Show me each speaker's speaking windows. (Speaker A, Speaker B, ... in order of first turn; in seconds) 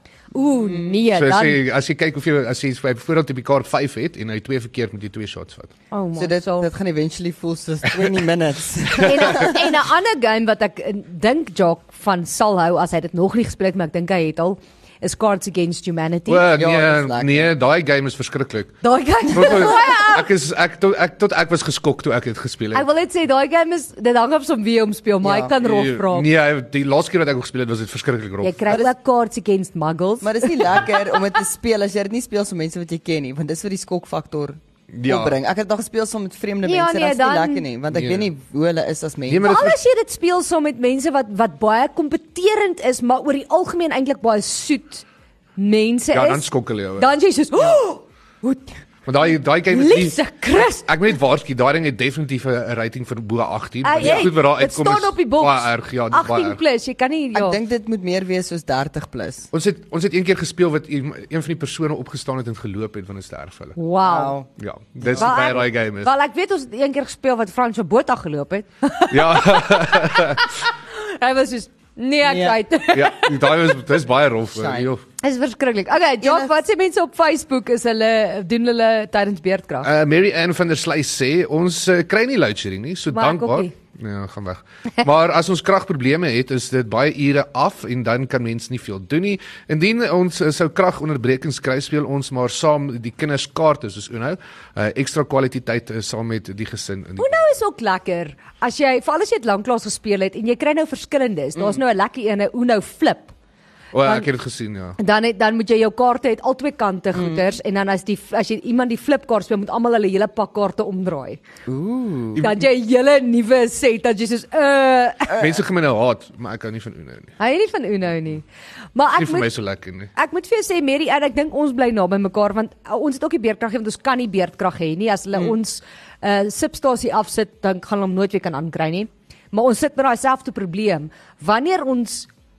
Speaker A: 0.3-1.6, 5.9-6.7, 9.0-16.5, 18.8-20.2, 22.7-26.3, 28.4-31.0, 36.6-37.6, 39.4-45.0, 45.6-48.8, 49.7-51.1, 53.8-57.6, 63.8-64.4, 65.1-73.8, 75.2-79.9, 83.1-83.7, 97.2-103.3, 105.0-111.4, 112.4-115.4, 117.4-118.4, 118.9-119.5, 120.1-132.3
Speaker B: 0.6-0.9, 6.2-9.7, 16.5-17.5, 25.2-25.5, 30.2-39.5, 57.3-59.5, 64.0-64.5, 65.0-65.3, 72.2-72.6, 74.5-74.9, 76.2-76.5, 101.6-101.8, 107.1-107.4, 111.7-112.4
Speaker C: 1.1-5.7, 9.0-9.4, 16.3-18.8, 19.3-22.8, 25.6-28.6, 34.9-35.4, 37.9-38.3, 39.3-39.8, 46.1-47.1, 49.1-50.2, 50.9-56.6, 59.5-63.8, 64.6-66.1, 69.1-70.6, 72.9-75.0, 79.8-97.4, 103.9-105.0, 112.3-112.6, 115.3-117.3, 119.2-120.1